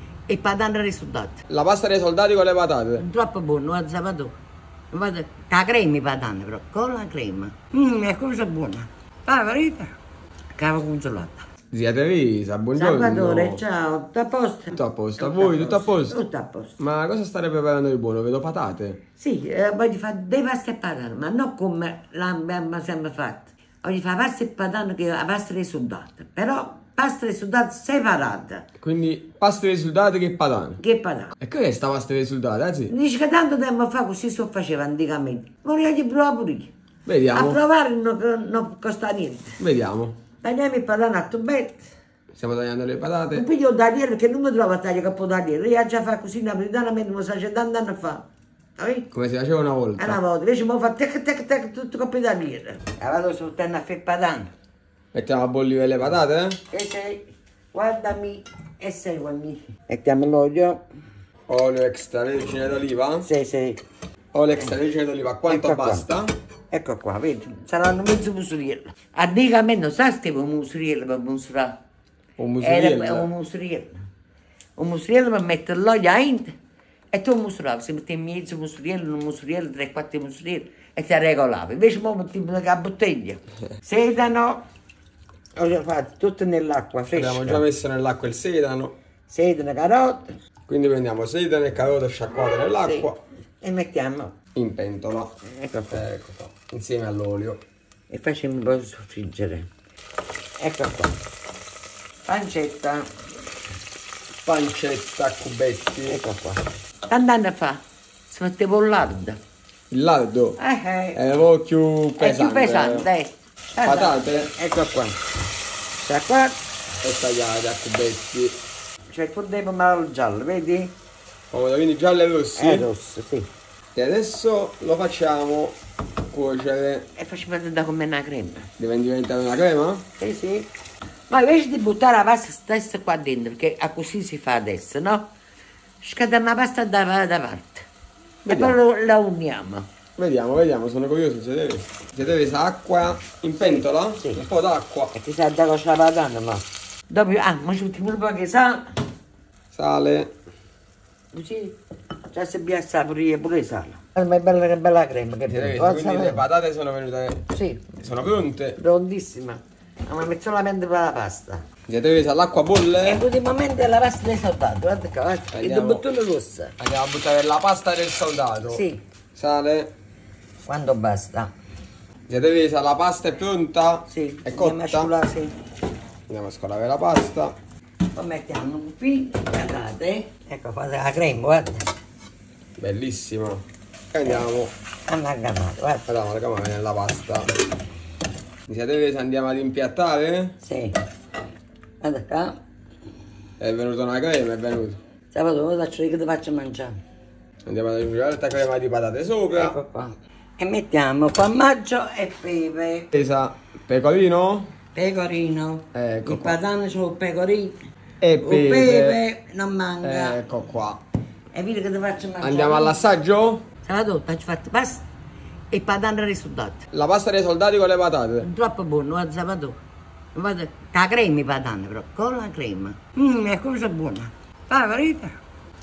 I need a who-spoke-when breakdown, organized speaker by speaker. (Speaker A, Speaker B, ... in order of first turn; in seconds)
Speaker A: 0.3-1.4, 3.0-4.3, 4.9-9.9, 10.6-11.5, 12.8-16.8, 19.2-28.7, 30.8-31.4, 32.9-36.7, 37.3-39.6, 40.4-41.9, 43.3-48.2, 48.8-49.1, 50.0-54.5, 56.7-60.8, 63.2-63.8, 65.5-66.1, 66.7-71.7, 72.6-74.1, 74.8-76.5, 77.1-84.6, 85.6-87.6, 89.3-90.4, 92.8-93.1, 93.6-94.3, 95.5-96.0, 98.1-99.7, 100.6-101.2, 102.3-103.1, 106.1-109.4, 110.6-111.2, 112.2-115.2, 116.0-116.6, 119.1-120.9, 122.6-123.5, 127.2-128.7, 130.2-130.7, 131.3-135.3, 136.0-137.9, 138.5-139.9, 145.1-148.8, 151.3-151.8, 152.3-156.4, 157.5-157.8, 158.8-161.6, 163.0-166.7, 168.7-169.0, 170.7-171.5, 174.1-175.5, 178.1-181.9, 185.1-186.1, 190.6-191.0, 192.0-192.6, 195.3-197.0, 199.5-203.1, 204.9-207.8, 208.4-210.4, 211.5-213.0, 213.8-215.1, 215.7-216.8, 218.4-219.8, 220.3-225.4
Speaker B: 1.5-3.0, 11.7-13.6, 14.7-16.2, 16.8-19.0, 28.8-30.8, 31.4-32.9, 37.1-37.6, 39.6-40.2, 42.4-43.5, 49.1-50.2, 55.1-56.6, 61.5-63.3, 64.3-66.3, 72.4-73.3, 87.1-89.0, 90.7-93.2, 94.5-95.3, 95.9-97.6, 104.5-106.2, 109.9-110.6, 111.2-113.1, 113.8-114.5, 117.0-118.6, 121.5-122.9, 124.0-125.8, 126.3-127.0, 128.8-130.0, 138.4-138.8, 140.2-145.1, 149.7-150.3, 155.5-157.4, 158.0-158.8, 161.9-163.2, 165.5-166.1, 166.8-168.8, 169.3-169.9, 172.3-175.1, 176.3-177.6, 182.8-184.7, 186.1-187.5, 188.7-190.6, 193.6-195.0, 197.7-199.8, 203.1-204.7, 205.9-206.6, 208.2-209.2, 210.0-211.0, 212.4-213.6, 216.9-218.5